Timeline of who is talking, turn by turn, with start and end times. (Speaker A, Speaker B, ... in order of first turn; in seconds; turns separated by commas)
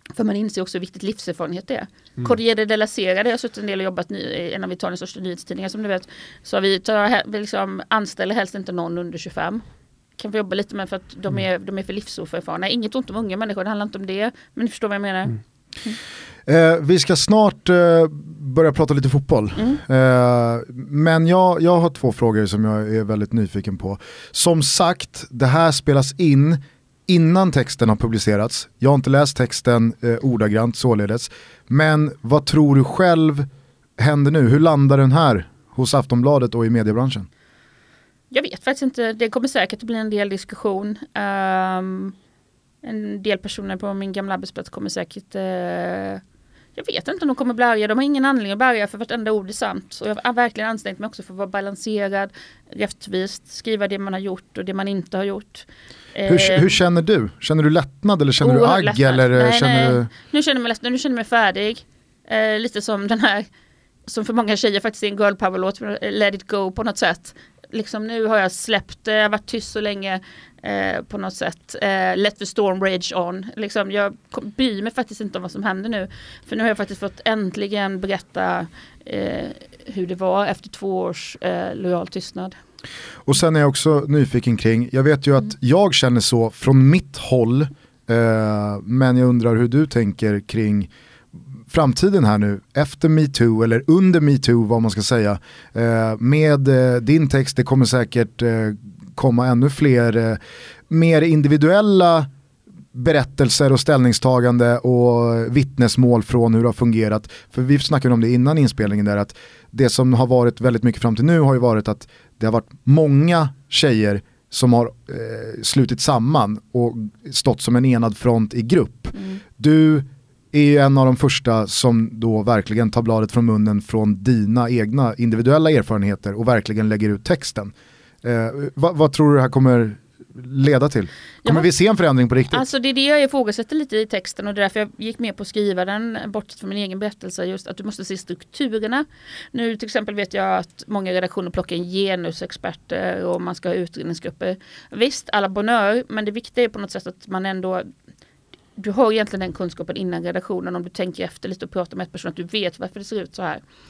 Speaker A: 0.1-9.6, Speaker A: 10.2-15.9, Speaker B: 16.5-33.5, Speaker B: 34.0-37.3, Speaker A: 38.3-42.1, Speaker A: 42.8-46.2, Speaker A: 46.8-56.7, Speaker B: 56.2-60.1, Speaker A: 58.4-63.5, Speaker A: 64.0-82.5, Speaker B: 83.2-90.9, Speaker B: 91.7-100.4, Speaker B: 100.9-102.3, Speaker B: 102.9-132.6, Speaker A: 119.1-119.4, Speaker A: 132.5-147.9, Speaker A: 148.8-153.6